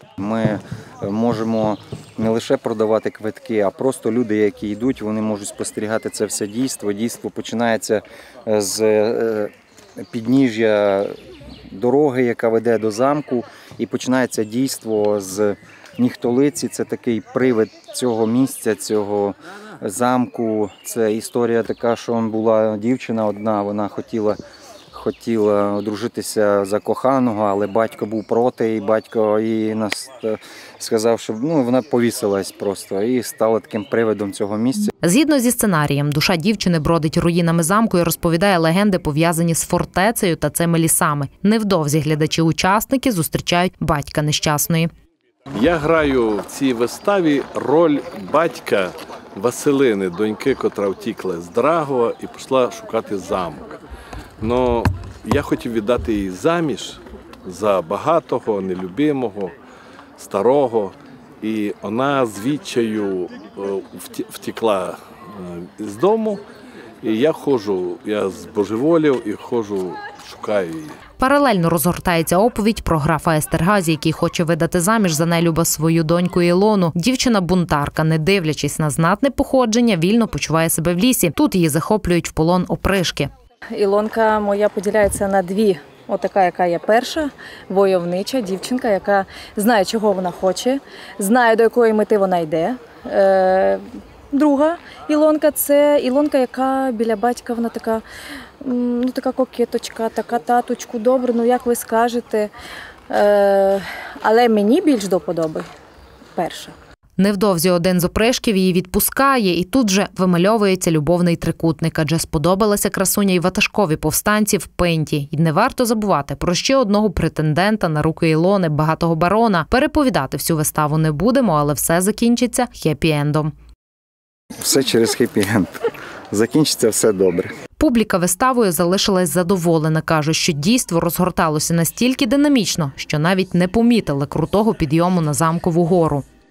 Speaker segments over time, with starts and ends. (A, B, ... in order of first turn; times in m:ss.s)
0:00.2-0:09.5 A
0:10.1-0:11.2 A
0:11.7-0:24.4 A
0:24.9-0:34.9 A
0:35.0-0:44.9 B
0:45.5-0:53.8 C
0:54.4-0:59.5 C
1:00.2-1:06.4 C
1:07.0-1:10.9 C
1:11.2-1:23.3 B
1:23.7-1:38.0 D
1:38.6-1:42.5 D
1:43.1-1:45.6 D
1:46.3-1:46.7 D
1:47.2-2:03.5 B
2:04.6-2:05.7 A
2:06.3-2:07.5 A
2:07.8-2:16.2 B